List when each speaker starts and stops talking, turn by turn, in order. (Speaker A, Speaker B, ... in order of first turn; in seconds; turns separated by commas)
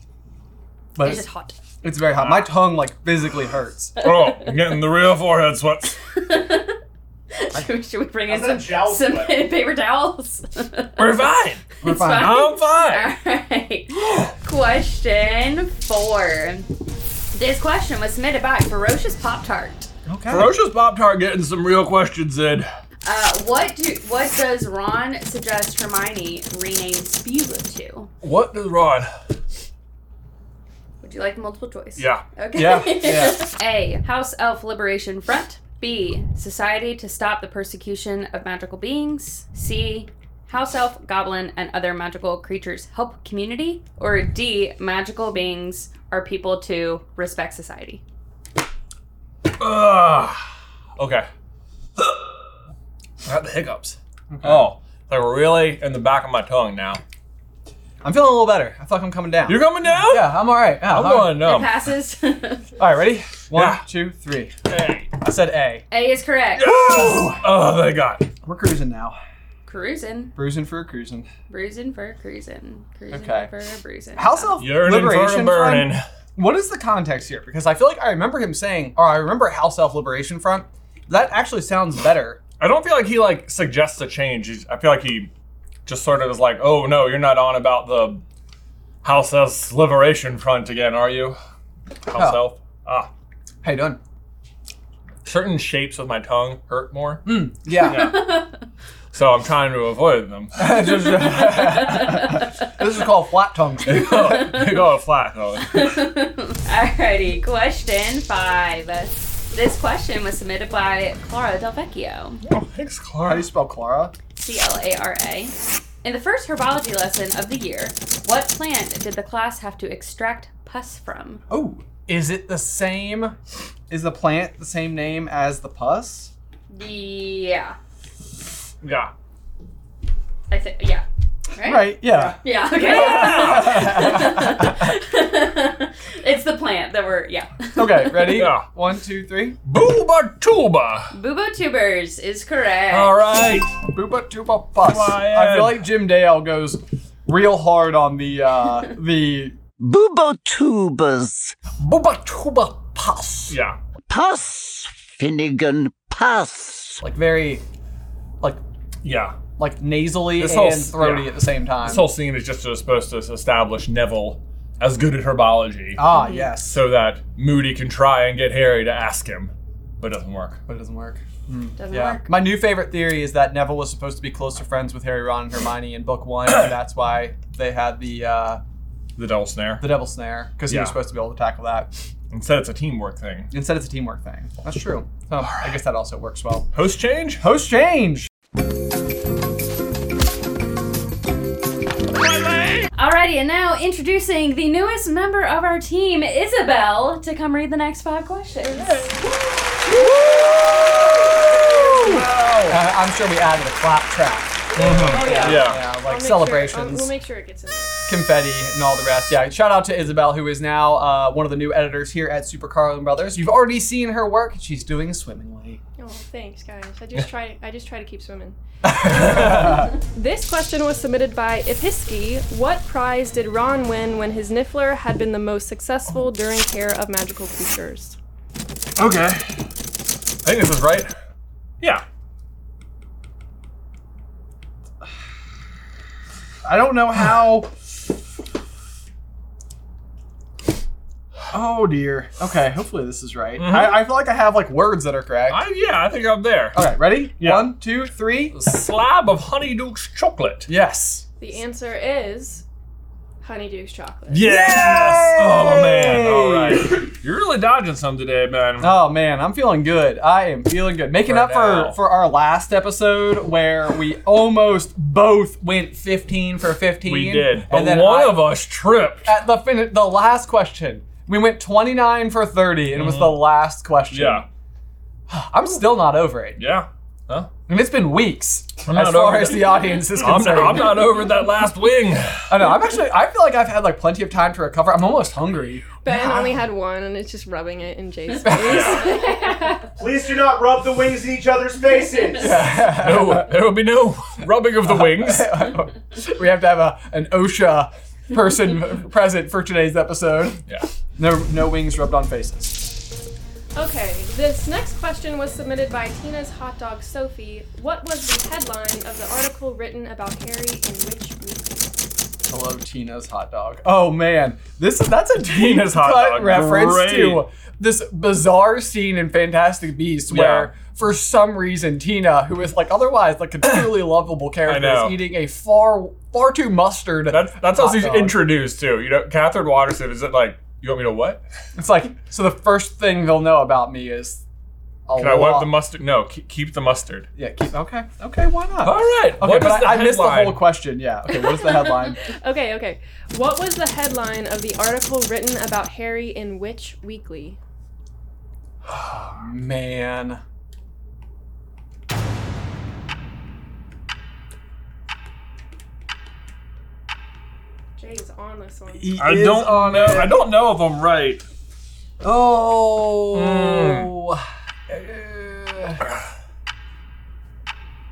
Speaker A: 0.9-1.2, Speaker B: 1.0-1.6, Speaker A: 1.8-4.0, Speaker C: 2.1-2.5, Speaker C: 4.0-6.0, Speaker B: 4.0-4.6, Speaker B: 6.1-6.8, Speaker B: 7.3-11.2, Speaker D: 8.3-9.5, Speaker C: 11.0-13.1, Speaker A: 11.8-12.4, Speaker B: 11.8-16.7, Speaker B: 17.3-19.9, Speaker A: 20.1-20.5, Speaker C: 20.3-22.7, Speaker B: 23.0-28.1, Speaker C: 28.2-29.1, Speaker B: 31.0-48.0, Speaker C: 32.0-32.2, Speaker A: 32.5-33.4, Speaker C: 49.6-50.5, Speaker C: 51.0-51.3, Speaker C: 53.2-57.0, Speaker A: 54.3-54.7, Speaker A: 58.0-61.5, Speaker C: 59.5-61.7, Speaker B: 61.4-62.7, Speaker A: 62.8-64.5, Speaker C: 63.5-63.8, Speaker C: 64.7-65.1, Speaker A: 65.2-65.8, Speaker B: 65.9-66.9, Speaker C: 66.5-68.3, Speaker A: 66.9-67.4, Speaker A: 68.4-69.2, Speaker B: 69.7-70.3, Speaker A: 70.3-71.3, Speaker B: 71.5-74.5, Speaker A: 73.1-73.5, Speaker A: 74.2-82.4, Speaker C: 74.6-76.0, Speaker C: 82.6-85.3, Speaker C: 85.8-88.2, Speaker C: 89.0-91.4, Speaker C: 92.0-93.1, Speaker A: 92.1-92.4, Speaker A: 93.6-94.0, Speaker C: 95.2-97.3, Speaker A: 97.2-98.2, Speaker C: 97.8-98.4, Speaker B: 97.9-98.5, Speaker C: 99.1-101.5, Speaker A: 100.5-104.6, Speaker B: 101.5-102.2, Speaker C: 103.8-106.0, Speaker B: 104.2-104.8, Speaker B: 105.6-112.4, Speaker C: 112.4-113.5, Speaker A: 113.2-114.1, Speaker B: 114.3-121.4, Speaker A: 121.5-123.3, Speaker A: 123.9-126.3, Speaker B: 126.7-127.8, Speaker C: 128.8-129.1, Speaker B: 130.5-138.4, Speaker A: 131.6-134.9, Speaker C: 132.8-134.0, Speaker A: 137.7-139.6, Speaker C: 138.3-138.7, Speaker C: 139.6-141.1, Speaker B: 141.1-143.2, Speaker C: 142.9-143.7, Speaker A: 143.9-149.6, Speaker C: 144.8-145.8, Speaker E: 149.8-151.6, Speaker A: 151.8-153.6, Speaker C: 153.5-153.8, Speaker E: 154.1-157.0, Speaker A: 157.0-157.6, Speaker C: 159.0-159.4, Speaker A: 159.6-162.1, Speaker C: 160.3-166.1, Speaker A: 165.9-166.8, Speaker B: 166.1-166.5, Speaker C: 166.6-170.6, Speaker A: 170.7-178.6, Speaker B: 171.8-172.3, Speaker C: 179.2-180.0, Speaker A: 179.8-181.9, Speaker C: 180.7-180.9, Speaker C: 182.3-183.5, Speaker A: 183.5-186.7, Speaker C: 186.7-187.4, Speaker A: 187.4-188.3, Speaker C: 192.3-192.8, Speaker B: 192.9-199.2, Speaker C: 198.8-199.1, Speaker A: 199.8-200.4, Speaker C: 199.9-202.8, Speaker A: 201.7-207.1, Speaker C: 204.8-205.8, Speaker F: 205.1-207.9, Speaker B: 205.1-205.7, Speaker A: 208.1-215.8, Speaker F: 216.0-218.6, Speaker A: 218.8-219.9, Speaker C: 219.2-219.7, Speaker F: 219.3-228.2, Speaker C: 229.0-229.5, Speaker C: 230.4-231.1, Speaker A: 236.6-237.7, Speaker A: 241.5-245.6, Speaker C: 243.6-244.0, Speaker C: 245.5-247.7, Speaker A: 246.7-248.6, Speaker C: 248.5-250.7, Speaker A: 250.7-251.2, Speaker F: 251.4-252.6, Speaker F: 253.4-254.5, Speaker C: 254.3-258.9, Speaker A: 254.3-257.1, Speaker A: 258.8-268.5, Speaker C: 261.2-262.0, Speaker C: 267.0-269.3, Speaker A: 269.2-274.4, Speaker C: 272.9-273.5, Speaker C: 274.1-274.4, Speaker A: 275.3-276.6, Speaker C: 276.6-277.5, Speaker A: 277.7-281.1, Speaker C: 278.8-282.5, Speaker A: 282.5-286.5, Speaker F: 286.0-289.9, Speaker A: 288.4-289.0, Speaker C: 288.5-289.1, Speaker D: 289.9-292.7, Speaker A: 292.4-293.5, Speaker C: 292.6-295.5, Speaker A: 294.8-300.6, Speaker A: 301.2-302.9, Speaker F: 303.7-311.9, Speaker A: 312.5-328.5, Speaker C: 315.4-317.4, Speaker C: 320.3-320.7, Speaker C: 324.6-325.2, Speaker C: 327.3-331.4, Speaker A: 331.7-334.4, Speaker A: 335.1-335.7, Speaker C: 335.2-337.3, Speaker A: 337.4-342.2, Speaker C: 338.8-340.7, Speaker F: 341.7-347.6, Speaker A: 348.9-350.4, Speaker F: 358.0-359.2, Speaker A: 358.9-360.4, Speaker C: 359.2-361.4, Speaker A: 362.2-366.0, Speaker C: 363.3-364.1